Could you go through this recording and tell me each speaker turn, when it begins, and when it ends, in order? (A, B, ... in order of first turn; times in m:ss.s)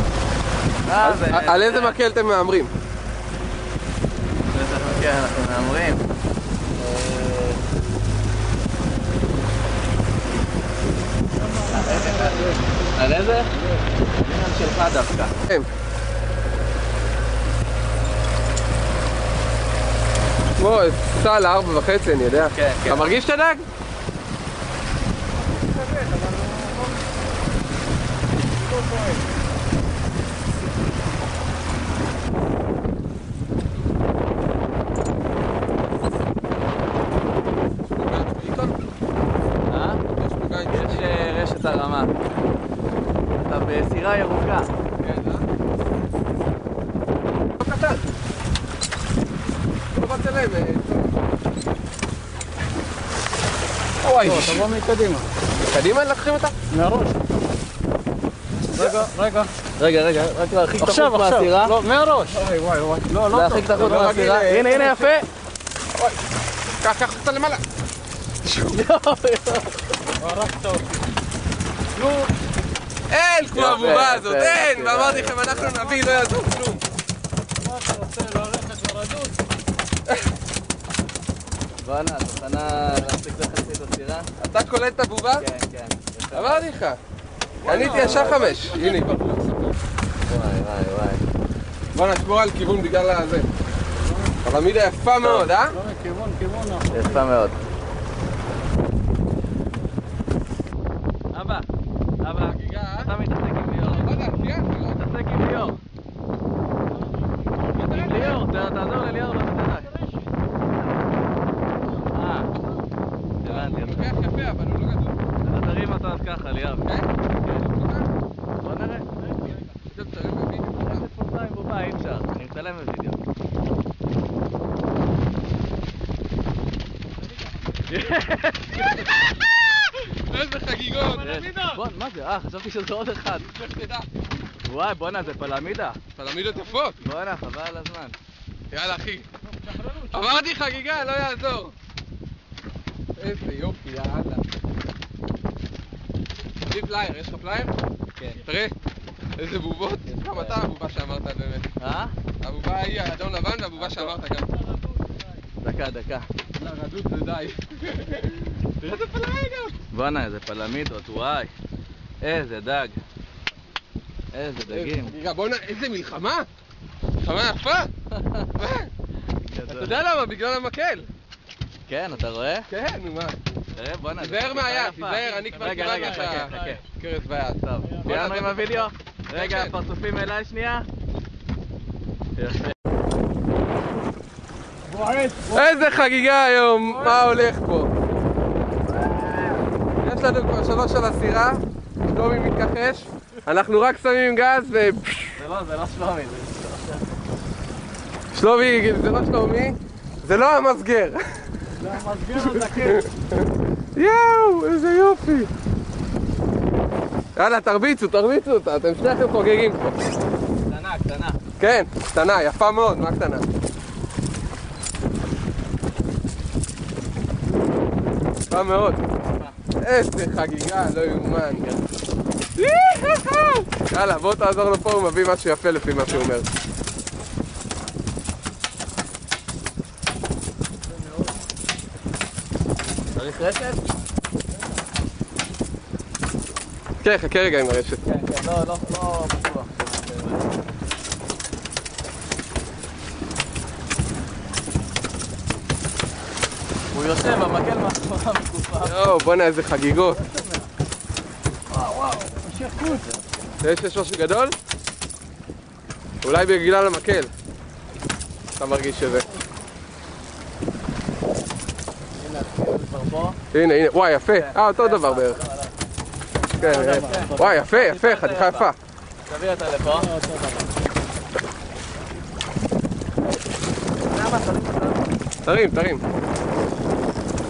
0:00.8-0:02.0 A
0:01.0-0:02.7 B
0:04.5-0:06.0 A
0:06.8-0:07.6 A
0:11.4-0:12.6 C
0:11.7-0:13.5 A
0:14.2-0:15.3 A
0:20.6-0:23.6 B
0:22.4-0:23.1 A
0:25.6-0:26.9 C
0:28.6-0:29.2 C
0:37.9-0:38.8 B
0:39.7-0:40.0 A
0:40.2-0:41.3 B
0:40.7-0:42.1 A
0:43.3-0:44.7 A
0:45.0-0:45.5 B
0:47.6-0:48.1 B
0:49.9-0:51.2 B
0:54.0-0:54.7 B
0:54.2-0:55.3 C
0:55.6-0:56.5 B
0:56.7-0:57.3 C
0:58.7-0:59.1 B
0:58.7-0:59.5 C
0:59.8-1:01.7 A
1:00.8-1:02.4 C
1:02.3-1:03.1 B
1:03.0-1:03.7 C
1:03.3-1:05.3 A
1:03.7-1:05.2 B
1:06.8-1:07.6 B
1:08.4-1:08.8 B
1:08.7-1:09.8 A
1:10.2-1:10.9 C
1:12.0-1:12.3 C
1:13.1-1:16.8 B
1:13.5-1:15.8 A
1:17.6-1:19.4 C
1:21.8-1:24.3 A
1:24.4-1:25.4 B
1:25.3-1:26.7 A
1:26.3-1:27.0 B
1:27.6-1:29.3 B
1:27.6-1:29.7 C
1:27.8-1:28.4 A
1:30.2-1:31.2 A
1:31.9-1:33.5 B
1:34.4-1:35.8 B
1:35.2-1:35.5 A
1:35.7-1:37.1 C
1:36.9-1:37.6 A
1:41.3-1:41.7 A
1:42.2-1:44.2 A
1:42.4-1:43.1 B
1:43.8-1:45.1 B
1:45.0-1:45.8 A
1:47.6-1:48.4 B
1:47.8-1:49.9 A
1:52.0-1:52.5 A
1:53.4-1:54.1 A
1:53.4-1:55.2 B
1:55.4-1:57.0 A
1:56.8-1:58.1 B
1:58.6-1:59.3 A
1:59.8-2:01.1 B
2:00.8-2:03.2 A
2:07.8-2:09.1 A
2:08.7-2:11.5 B
2:11.2-2:13.5 A
2:13.5-2:14.1 B
2:14.6-2:16.0 A
2:16.2-2:17.0 B
2:17.0-2:18.2 A
2:18.7-2:19.3 B
2:19.7-2:20.0 C
2:19.9-2:21.7 B
2:23.2-2:24.4 B
2:26.7-2:27.7 B
2:28.2-2:28.4 A
2:28.4-2:28.7 B
2:29.4-2:31.7 B
2:30.1-2:30.6 A
2:31.8-2:32.1 A
2:32.4-2:34.5 B
2:33.8-2:34.2 A
2:35.6-2:36.3 A
2:36.6-2:39.8 B
2:39.9-2:41.5 A
2:42.2-2:43.0 A
2:44.3-2:45.1 A
2:44.7-2:46.5 B
2:47.2-2:47.9 B
2:48.1-2:48.5 A
2:48.5-2:48.9 B
2:49.5-2:50.0 A
2:49.7-2:51.1 B
2:51.9-2:52.7 A
2:52.7-2:53.4 B
2:53.7-2:56.8 A
2:54.1-2:59.7 B
2:55.8-2:56.7 C
2:58.0-3:00.9 A
3:02.4-3:02.7 A
3:04.9-3:05.7 C
3:05.5-3:07.9 B
3:09.1-3:09.6 A
3:10.0-3:15.4 B
3:15.4-3:17.0 A
3:18.3-3:21.6 B
3:21.7-3:23.1 C
3:22.3-3:25.5 B
3:27.3-3:30.0 B
3:30.7-3:31.4 A
3:31.6-3:33.5 B
3:38.5-3:39.0 B
3:39.2-3:39.5 A
3:39.8-3:41.8 B
3:42.6-3:46.5 B
3:53.1-3:53.8 A
3:57.0-3:58.0 B
3:58.0-4:00.5 A
4:06.9-4:08.9 A
4:08.8-4:10.2 B
4:10.2-4:10.6 C
4:11.7-4:13.1 C
4:13.6-4:14.6 B
4:16.2-4:17.3 B
4:18.6-4:19.3 B
4:22.2-4:23.4 A
4:23.5-4:25.4 B
4:24.3-4:25.7 A
4:26.6-4:28.8 B
4:26.6-4:27.5 C
4:26.8-4:28.7 A
4:29.2-4:30.1 A
4:29.9-4:30.7 C
4:34.1-4:35.0 A
4:35.4-4:36.0 B